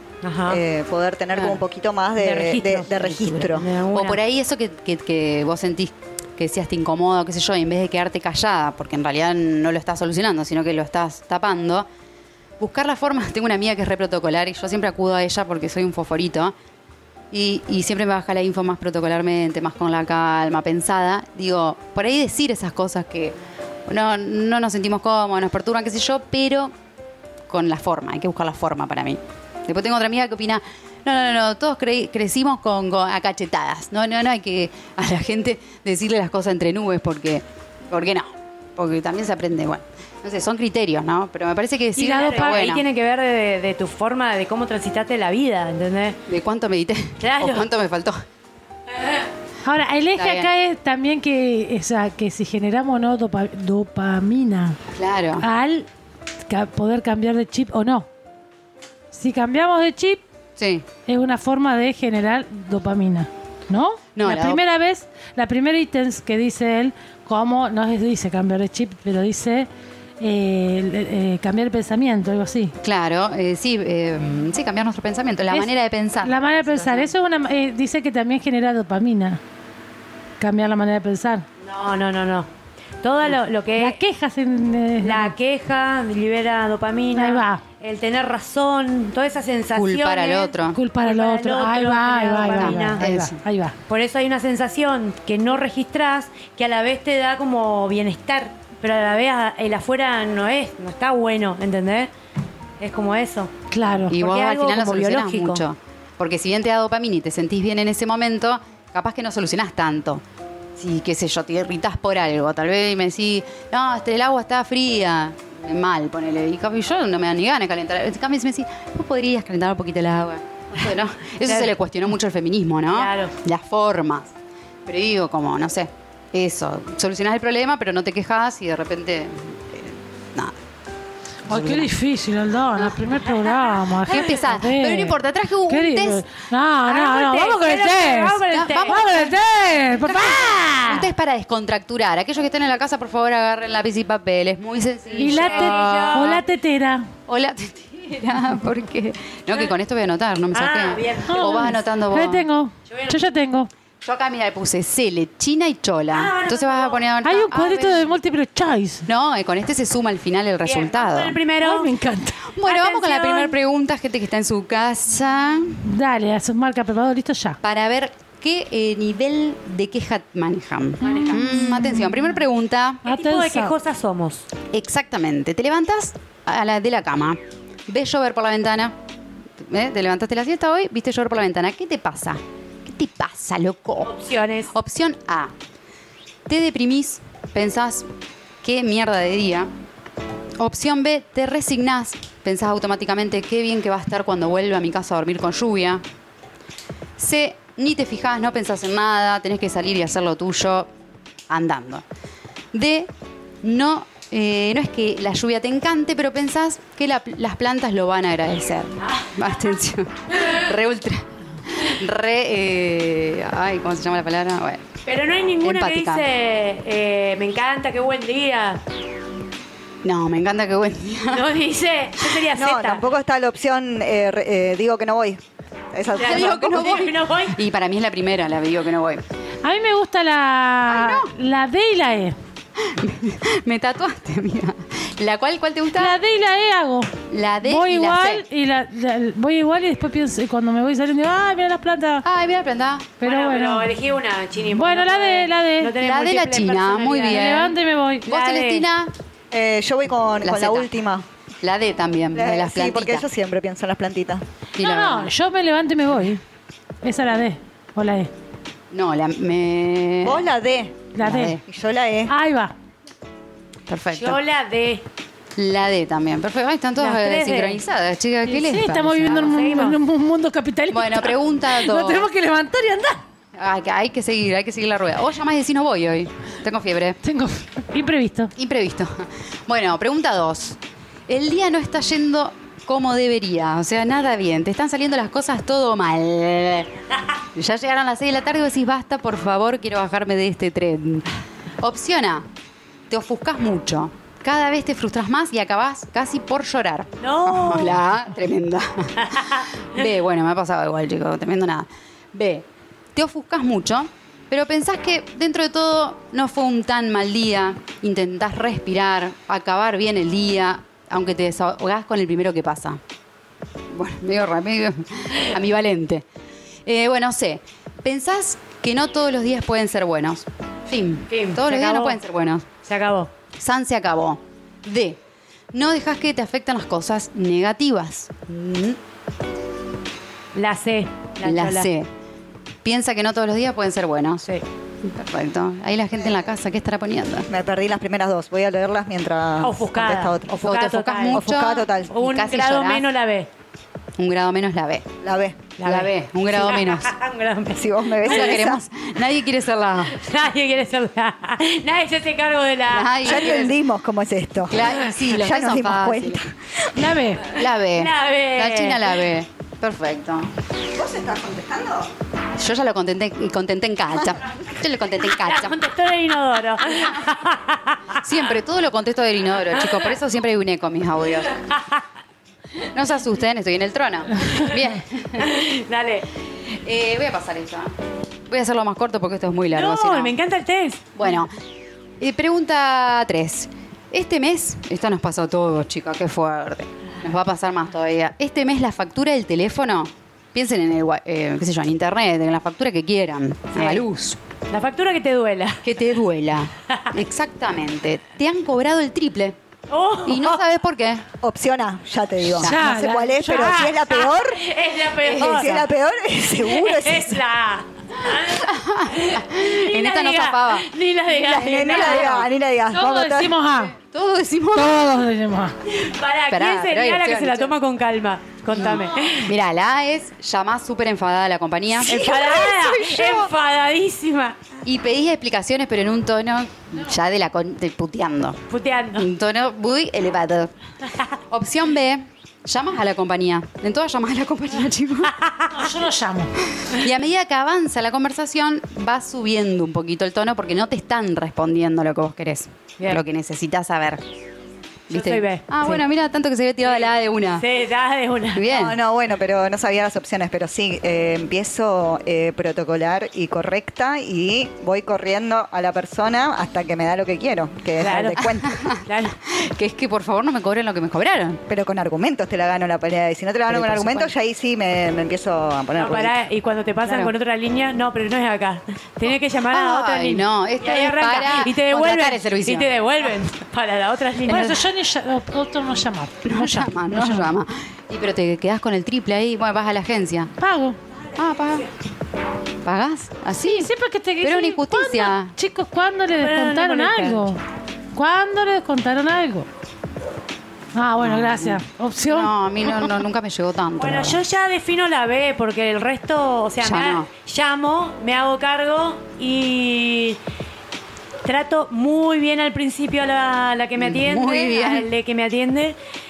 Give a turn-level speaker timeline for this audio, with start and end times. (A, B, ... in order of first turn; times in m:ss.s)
0:00.2-0:00.6 A
0:00.5-0:03.6 B
0:02.2-0:04.2 A
0:03.4-0:11.9 C
0:12.6-0:16.5 C
0:17.3-0:23.4 C
0:23.9-0:26.7 C
0:27.5-0:42.8 C
0:42.0-0:46.2 A
0:42.0-0:42.8 D
0:46.3-0:48.2 C
0:47.2-0:47.7 A
0:49.6-0:54.8 D
0:50.2-0:50.5 C
0:54.9-0:55.4 C
0:55.4-0:55.9 D
0:56.5-0:58.1 D
0:59.1-1:00.2 D
1:00.6-1:00.8 C
1:01.1-1:09.7 D
1:04.2-1:04.6 C
1:10.2-1:12.8 D
1:12.8-1:17.1 C
1:16.2-1:19.4 D
1:20.4-1:21.5 D
1:21.6-1:22.5 A
1:23.0-1:24.0 A
1:23.8-1:25.3 D
1:25.0-1:33.0 A
1:27.2-1:27.6 D
1:29.8-1:30.8 C
1:30.8-1:33.8 D
1:32.4-1:33.4 C
1:33.9-1:42.1 A
1:42.8-1:43.5 A
1:43.7-1:44.2 D
1:44.1-1:50.2 C
1:44.1-1:45.6 A
1:50.8-2:04.3 C
2:01.4-2:01.7 A
2:02.9-2:03.3 A
2:04.9-2:10.5 C
2:11.5-2:11.9 C
2:11.5-2:21.1 D
2:14.1-2:16.2 C
2:16.9-2:19.1 A
2:18.5-2:19.3 C
2:20.0-2:26.4 C
2:25.1-2:26.4 A
2:25.2-2:27.1 D
2:27.3-2:32.4 C
2:30.5-2:31.8 A
2:31.3-2:33.7 D
2:32.9-2:33.2 A
2:34.0-2:38.1 C
2:36.1-2:37.1 A
2:37.2-2:39.1 D
2:39.1-2:41.4 C
2:40.6-2:41.9 A
2:41.6-2:42.4 D
2:42.5-2:45.8 C
2:42.6-2:43.6 A
2:45.8-2:47.6 D
2:47.6-2:53.0 C
2:51.0-2:51.6 A
2:51.1-2:52.1 D
2:53.0-2:53.7 D
2:53.0-2:54.5 A
2:54.7-2:59.0 C
2:59.6-3:04.1 C
3:04.0-3:04.7 A
3:04.7-3:05.5 C
3:06.5-3:08.1 C
3:08.6-3:09.7 C
3:10.6-3:16.0 C
3:17.2-3:20.9 C
3:21.5-3:22.0 C
3:22.7-3:23.1 C
3:23.6-3:34.8 C
3:35.1-3:38.8 A
3:35.6-3:36.2 C
3:40.0-3:41.5 C
3:41.3-3:43.0 A
3:42.6-3:45.4 B
3:45.9-3:47.1 B
3:46.2-3:47.6 A
3:46.2-3:49.2 C
3:49.6-3:52.4 D
3:50.9-3:51.3 C
3:52.8-3:56.2 C
3:56.0-4:02.2 D
3:57.3-3:58.4 C
4:02.2-4:03.1 C
4:03.2-4:03.9 D
4:03.2-4:07.6 A
4:04.7-4:05.9 D
4:06.0-4:07.8 C
4:07.3-4:08.3 D
4:08.3-4:08.9 A
4:08.3-4:09.1 C
4:09.5-4:11.2 B
4:10.4-4:10.9 C
4:11.6-4:13.2 C
4:12.3-4:14.4 B
4:14.8-4:15.3 C
4:14.8-4:16.4 D
4:17.0-4:18.3 D
4:18.9-4:20.5 C
4:20.2-4:21.1 B
4:21.2-4:21.6 D
4:21.2-4:21.6 C
4:21.6-4:22.3 B
4:22.3-4:22.7 D
4:23.9-4:24.4 C
4:24.2-4:25.0 A
4:25.6-4:29.6 C
4:27.0-4:27.8 A
4:28.5-4:33.2 D
4:29.3-4:30.0 A
4:30.9-4:32.3 C
4:33.6-4:37.2 C
4:37.2-4:38.5 D
4:38.6-4:46.9 C
4:47.6-4:51.3 C
4:51.8-4:52.5 C
4:53.1-5:13.0 C
4:57.2-4:58.0 A
4:59.3-4:59.6 A
5:13.9-5:16.2 C
5:16.9-5:22.7 C
5:21.3-5:22.2 A
5:22.8-5:23.3 A
5:23.6-5:25.2 C
5:25.7-5:29.0 C
5:30.6-5:31.9 A
5:31.4-5:32.1 C
5:32.8-5:34.5 C
5:35.0-5:37.5 C
5:37.5-5:40.7 B
5:39.6-5:43.5 A
5:40.6-5:43.0 C
5:41.3-5:42.1 B
5:44.2-5:45.1 C
5:45.2-5:45.6 B
5:45.8-5:48.7 A
5:45.8-5:47.1 C
5:47.7-5:48.8 B
5:48.2-5:50.2 C
5:50.1-5:53.5 A
5:52.9-5:53.8 C
5:53.2-5:57.1 B
5:54.7-5:56.4 C
5:57.0-5:57.5 D
5:57.5-6:00.5 C
5:57.8-5:59.2 A
6:00.9-6:02.1 B
6:02.6-6:05.8 C
6:05.4-6:08.2 A
6:08.2-6:11.5 C
6:11.8-6:12.0 A
6:12.9-6:15.5 C
6:15.4-6:16.3 A
6:16.7-6:17.9 C
6:18.5-6:20.3 C
6:19.7-6:21.1 A
6:21.2-6:21.5 C
6:22.2-6:34.4 C
6:33.7-6:34.0 A
6:34.7-6:35.8 A
6:35.8-6:39.6 C
6:39.9-6:40.6 A
6:40.3-6:41.2 C
6:41.4-6:44.6 B
6:42.6-6:44.0 D
6:43.8-6:45.8 A
6:45.2-6:45.8 C
6:45.3-6:47.4 B
6:46.6-6:52.5 A
6:48.2-6:50.9 C
6:51.4-6:53.6 B
6:52.1-6:52.3 C
6:52.9-6:54.0 D
6:54.0-6:55.0 C
6:54.7-6:55.7 D
6:55.9-6:59.5 A
6:56.5-6:57.7 C
6:58.7-7:02.7 C
7:02.0-7:04.6 A
7:02.3-7:03.3 B
7:04.8-7:08.6 C
7:08.7-7:09.3 A
7:09.2-7:10.7 C
7:11.5-7:15.3 C
7:15.4-7:15.7 A
7:15.7-7:16.6 D
7:16.7-7:24.2 C
7:25.1-7:26.0 A
7:25.1-7:27.6 C
7:27.6-7:28.7 A
7:28.6-7:29.0 C
7:28.7-7:38.7 B
7:38.0-7:38.6 A
7:38.1-7:41.6 C
7:39.1-7:39.3 A
7:41.7-7:46.4 B
7:43.7-7:44.3 C
7:46.0-7:54.8 A
7:47.1-7:47.3 D
7:49.7-7:52.9 C
7:54.5-7:54.8 C
7:54.5-7:57.5 D
7:56.5-8:00.5 C
8:00.6-8:01.0 D
8:01.4-8:01.9 C
8:02.8-8:03.9 C
8:03.6-8:07.6 D
8:04.4-8:05.5 C
8:06.4-8:07.5 A
8:08.1-8:09.7 D
8:11.0-8:13.1 D
8:11.2-8:14.4 C
8:14.0-8:20.4 A
8:16.8-8:17.3 C
8:21.4-8:26.0 A
8:24.0-8:25.1 C